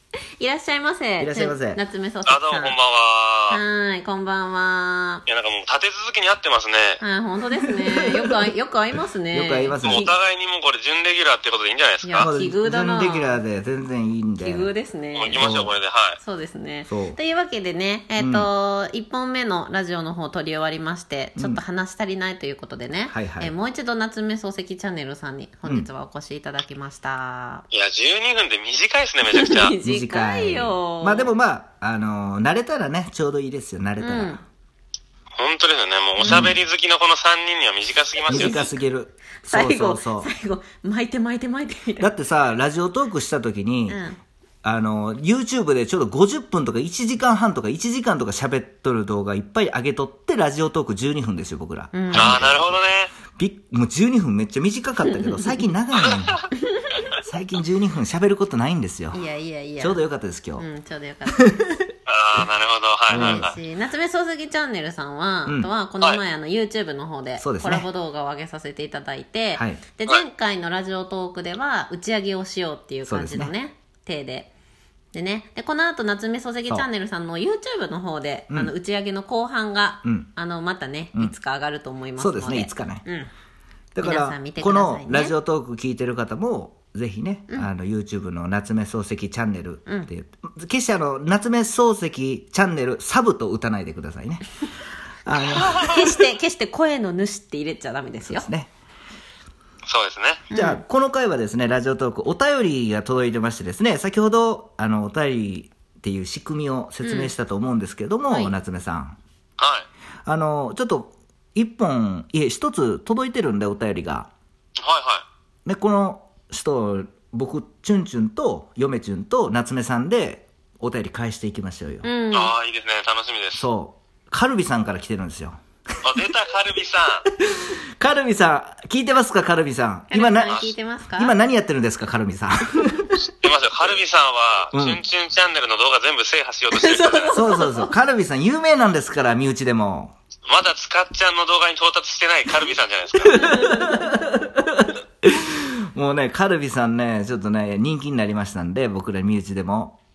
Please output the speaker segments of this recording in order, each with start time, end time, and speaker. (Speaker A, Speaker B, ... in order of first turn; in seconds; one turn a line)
Speaker A: 0.4-2.8
Speaker B: 1.2-1.8
Speaker C: 2.2-3.6
Speaker A: 3.5-5.2
Speaker C: 5.2-7.0
Speaker A: 7.0-10.1
Speaker B: 9.3-10.1
Speaker C: 9.8-12.3
Speaker A: 12.0-13.4
Speaker B: 12.2-14.7
Speaker A: 14.4-15.5
Speaker C: 15.1-16.2
Speaker B: 15.3-15.7
Speaker A: 16.2-27.6
Speaker B: 16.9-17.2
Speaker B: 18.2-18.5
Speaker B: 21.4-21.6
Speaker B: 23.1-23.5
Speaker C: 27.7-29.8
Speaker A: 29.3-31.3
Speaker B: 29.8-34.4
Speaker A: 34.0-34.4
Speaker C: 35.4-38.6
Speaker A: 36.2-36.5
Speaker B: 36.2-36.6
Speaker B: 38.3-40.3
Speaker A: 38.3-38.7
Speaker A: 39.4-42.1
Speaker B: 42.0-44.0
Speaker A: 43.9-44.2
Speaker B: 44.6-52.8
Speaker A: 51.9-52.4
Speaker C: 52.1-53.1
Speaker B: 53.3-56.5
Speaker C: 56.0-56.5
Speaker B: 57.2-59.2
Speaker A: 59.1-60.0
Speaker B: 59.8-60.7
Speaker A: 60.6-61.5
Speaker B: 61.6-61.9
Speaker C: 62.0-63.6
Speaker B: 63.1-63.5
Speaker A: 63.1-74.5
Speaker B: 65.5-65.7
Speaker B: 67.4-67.9
Speaker B: 69.5-69.8
Speaker B: 73.0-73.5
Speaker A: 75.1-83.3
Speaker B: 80.0-80.3
Speaker B: 82.2-83.0
Speaker B: 83.9-94.5
Speaker A: 84.0-85.3
Speaker A: 89.8-90.1
Speaker B: 95.2-96.2
Speaker A: 95.8-98.5
Speaker B: 98.2-98.7
Speaker C: 99.9-100.5
Speaker A: 100.5-100.8
Speaker B: 100.5-109.2
Speaker A: 107.0-107.3
Speaker A: 108.3-108.5
Speaker C: 109.6-109.9
Speaker B: 110.2-114.3
Speaker C: 114.8-115.2
Speaker B: 115.6-122.1
Speaker A: 122.0-122.5
Speaker C: 122.3-123.7
Speaker B: 123.5-125.6
Speaker C: 126.0-127.2
Speaker B: 127.4-133.2
Speaker A: 130.1-131.3
Speaker C: 130.4-130.7
Speaker C: 133.3-137.4
Speaker B: 134.7-135.0
Speaker A: 136.7-137.9
Speaker B: 137.3-140.1
Speaker C: 140.5-143.5
Speaker A: 143.3-144.0
Speaker B: 143.3-150.0